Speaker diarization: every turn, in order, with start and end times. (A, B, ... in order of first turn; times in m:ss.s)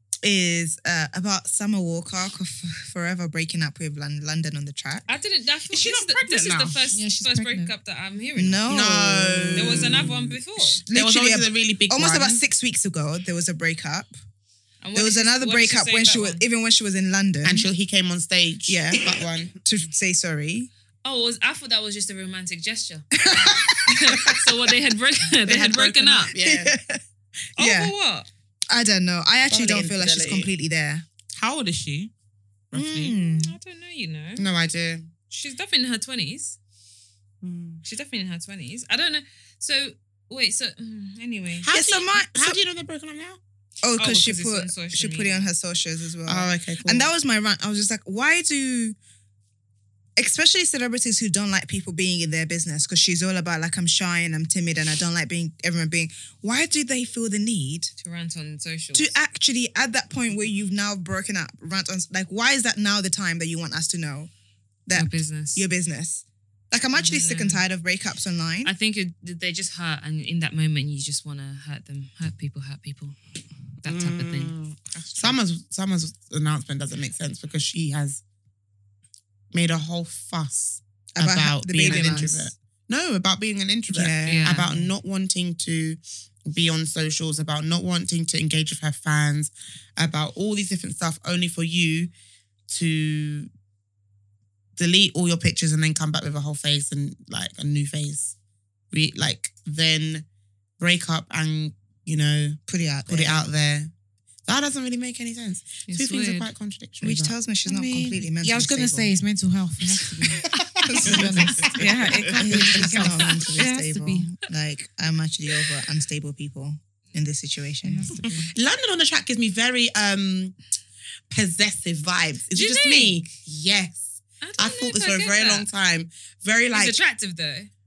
0:00.2-0:05.1 A
0:05.1-0:08.8 B
0:05.7-0:06.9 C
0:06.9-0:07.8 D
0:08.4-0:10.1 A
0:08.7-0:10.1 E
0:09.6-0:10.8 B
0:10.8-0:14.1 A
0:10.9-0:12.4 E
0:14.8-0:16.4 B
0:15.0-0:17.7 A
0:17.4-0:19.5 E
0:18.7-0:20.7 A
0:21.0-0:23.1 B
0:23.2-0:24.4 A
0:23.9-0:26.3 B
0:25.6-0:26.7 E
0:26.4-0:27.0 A
0:27.6-0:27.9 A
0:27.6-0:28.3 B
0:28.7-0:31.1 A
0:29.5-0:30.5 E
0:31.4-0:32.1 C
0:32.7-0:33.2 C
0:32.7-0:33.6 A
0:33.1-0:34.4 B
0:34.4-0:35.1 E
0:35.3-0:36.6 B
0:37.4-0:37.8 C
0:37.8-0:41.7 B
0:41.6-0:43.4 E
0:41.7-0:42.6 A
0:43.8-0:49.0 A
0:44.0-0:45.5 B
0:46.3-0:47.1 E
0:50.2-0:57.9 A
0:58.0-0:59.1 B
0:58.9-1:04.3 A
1:04.9-1:08.7 A
1:04.9-1:05.6 B
1:07.0-1:07.6 B
1:08.6-1:13.2 B
1:13.8-1:14.6 B
1:13.8-1:15.4 C
1:15.2-1:18.2 E
1:19.5-1:32.1 E
1:21.2-1:22.5 A
1:23.9-1:24.9 A
1:24.2-1:24.7 B
1:32.7-1:33.5 E
1:34.8-1:38.4 E
1:38.9-1:40.3 E
1:40.8-1:43.9 E
1:42.7-1:43.5 A
1:44.5-1:47.4 E
1:45.9-1:46.5 B
1:47.0-1:49.1 A
1:47.6-1:54.3 D
1:50.4-1:53.4 E
1:50.8-1:58.2 A
1:51.1-1:52.4 C
1:57.8-1:58.5 D
1:58.1-1:58.4 C
1:58.5-2:00.6 E
2:01.3-2:07.0 E
2:02.5-2:03.3 B
2:04.4-2:05.7 B
2:06.7-2:07.7 B